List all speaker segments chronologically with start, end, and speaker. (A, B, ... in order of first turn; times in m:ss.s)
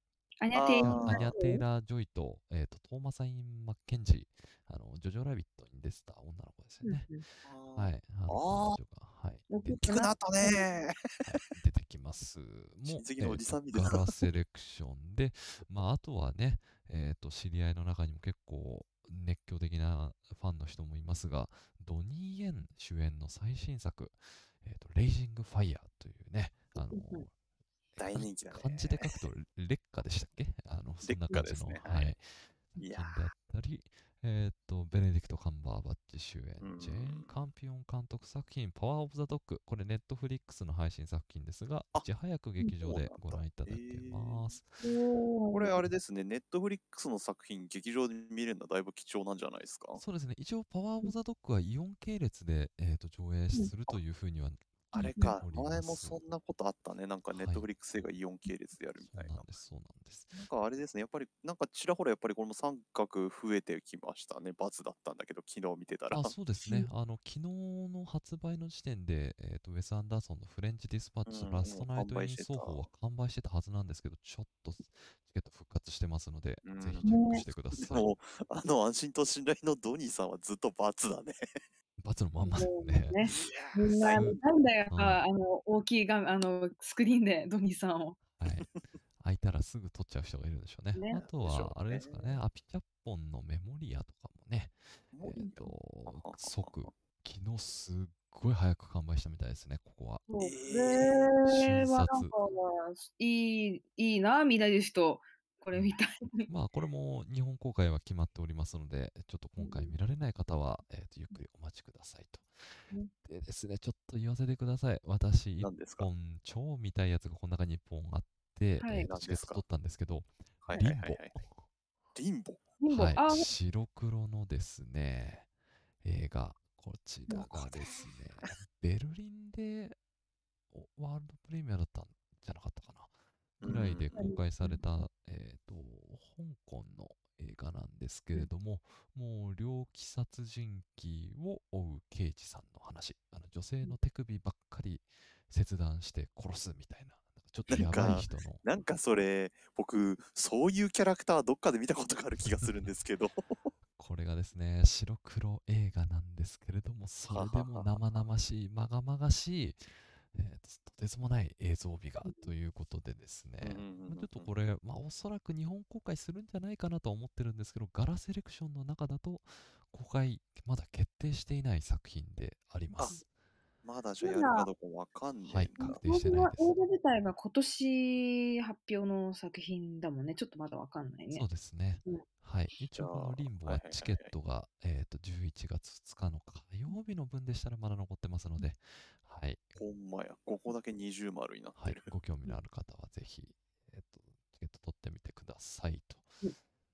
0:00.4-0:01.6 A
0:00.5-0:01.3 B
0:00.8-0:07.1 C
0:06.8-0:07.2 A
0:07.4-0:08.8 B
0:07.8-0:09.8 C
0:09.5-0:10.7 A
0:09.8-0:11.1 B
0:11.2-0:27.3 C
0:12.9-0:14.1 B
0:26.9-0:27.3 A
0:28.0-0:29.3 B
0:28.1-0:44.8 C
0:31.0-0:32.1 B
0:32.8-0:33.3 B
0:36.6-0:37.4 B
0:42.8-0:44.6 B
0:44.8-0:45.8 A
0:45.5-0:50.0 B
0:50.0-0:56.2 C
0:55.0-0:59.5 B
0:57.3-0:58.1 C
0:59.0-1:00.3 C
1:00.3-1:06.3 B
1:06.1-1:18.1 C
1:06.6-1:06.9 A
1:11.3-1:12.8 B
1:16.6-1:17.1 B
1:17.0-1:17.4 A
1:17.8-1:21.4 B
1:22.0-1:23.2 C
1:22.4-1:28.2 A
1:23.2-1:24.4 B
1:24.0-1:25.2 C
1:28.4-1:40.2 C
1:31.0-1:31.2 A
1:31.1-1:32.4 B
1:35.1-1:36.9 B
1:40.3-1:46.5 A
1:40.4-1:41.3 B
1:41.4-1:42.3 C
1:46.5-1:52.7 C
1:49.6-1:49.9 A
1:53.2-2:01.5 C
1:55.6-1:56.1 B
1:58.8-1:59.1 A
1:59.0-1:59.6 B
2:00.6-2:01.4 B
2:02.2-2:02.7 B
2:02.8-2:03.5 A
2:02.9-2:05.5 C
2:06.0-2:10.0 C
2:10.7-2:28.6 C
2:13.6-2:14.2 B
2:14.2-2:15.1 A
2:27.7-2:33.7 B
2:32.6-2:32.9 C
2:34.0-2:53.2 C
2:37.3-2:38.2 B
2:43.6-2:44.5 B
2:53.8-2:56.0 B
2:54.2-2:54.7 A
2:55.5-2:56.8 C
2:55.8-3:01.4 A
3:01.3-3:09.6 C
3:03.0-3:04.3 B
3:09.8-3:12.1 B
3:11.8-3:16.3 C